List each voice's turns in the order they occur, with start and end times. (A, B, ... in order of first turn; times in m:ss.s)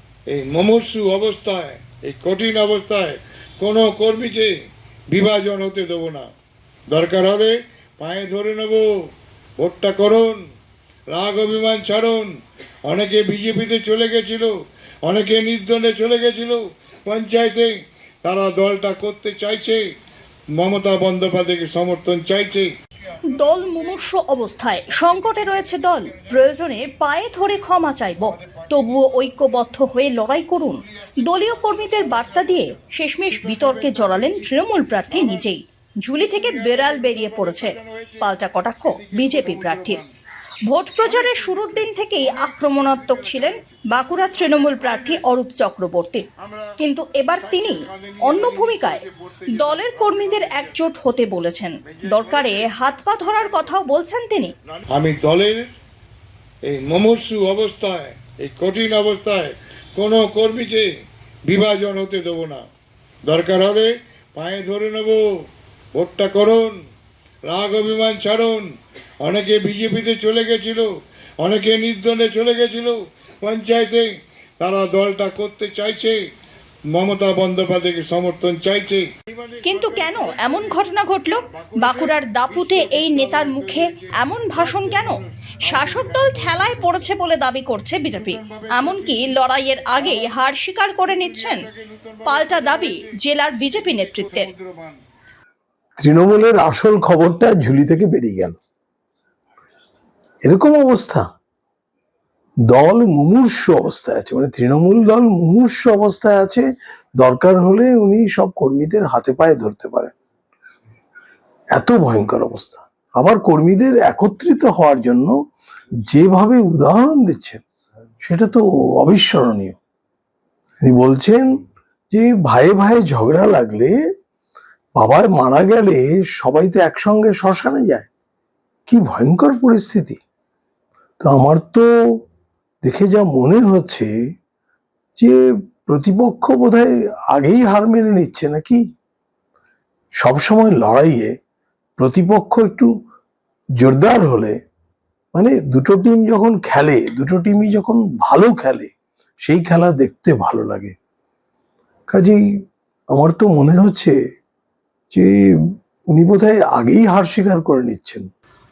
0:00.3-0:04.5 A
0:05.1-0:06.3 A
0:06.9-0:08.9 A
0:09.6-0:10.4 A
0:11.1-0:12.3 A
0:12.8-0:14.5 A
0:15.0-0:19.8 A
0:20.5-0:22.7 A
0:23.3-0:40.0 B
0:33.3-0:34.5 A
0:35.1-0:35.5 A
0:36.3-0:38.2 A
0:38.9-0:40.0 A
0:40.7-0:46.2 B
0:41.1-0:43.8 A
0:44.4-0:45.2 A
0:46.8-0:54.5 B
0:47.5-0:50.8 A
0:51.9-0:52.7 A
0:54.9-0:55.7 A
0:56.6-1:00.9 A
1:01.5-1:02.6 A
1:03.2-1:05.2 A
1:05.9-1:06.8 A
1:07.4-1:08.7 A
1:09.2-1:16.2 A
1:16.9-1:20.9 A
1:19.6-1:31.6 B
1:21.6-1:27.0 A
1:28.2-1:29.2 A
1:31.3-1:32.9 A
1:32.2-1:34.5 B
1:33.9-1:35.0 A
1:36.0-1:38.6 C
1:40.4-1:41.3 C
1:42.7-1:46.6 C
1:47.2-1:50.1 C
1:51.7-1:55.3 C
1:56.1-1:57.6 C
1:58.2-1:59.8 C
2:00.8-2:03.9 C
2:05.0-2:08.1 C
2:08.9-2:10.2 C
2:11.2-2:11.9 C
2:12.8-2:14.1 C
2:15.2-2:18.8 C
2:20.2-2:21.3 C
2:22.0-2:22.9 C
2:23.8-2:24.6 C
2:25.3-2:28.9 C
2:29.4-2:30.9 C
2:32.1-2:32.4 C
2:33.1-2:34.1 C
2:35.1-2:35.4 C
2:36.1-2:38.2 C